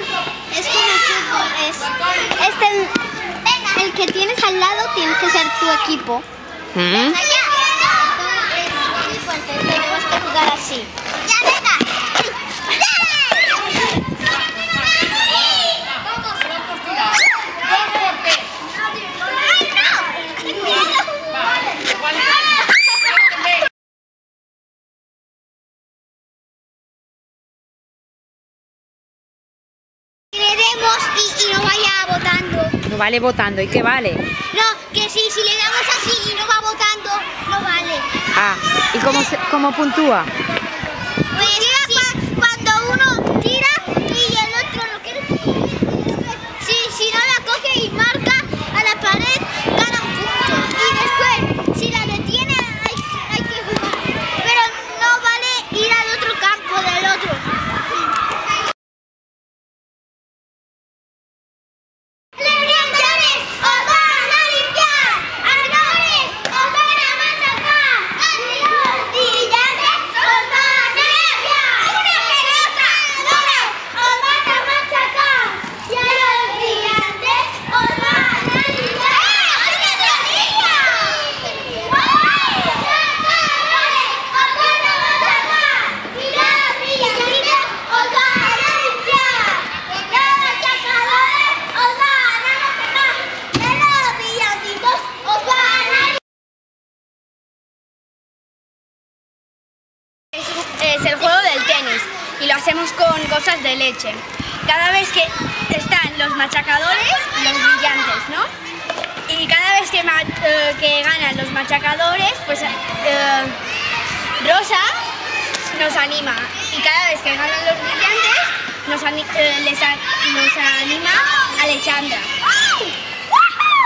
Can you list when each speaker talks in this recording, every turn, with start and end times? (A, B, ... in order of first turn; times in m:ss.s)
0:00.5-0:06.2 A
0:06.8-0:07.2 B
0:06.9-0:12.1 A
0:12.9-0:13.2 A
0:19.4-0:21.4 A
0:30.3-0:32.8 A
0:32.9-0:34.2 B
0:34.5-0:38.1 A
0:38.4-0:40.3 B
0:41.3-0:45.7 A
0:46.6-0:57.5 A
1:02.4-1:36.2 A
1:40.3-1:48.5 C
1:49.3-1:53.6 C
1:54.4-1:54.9 C
1:55.6-2:02.8 C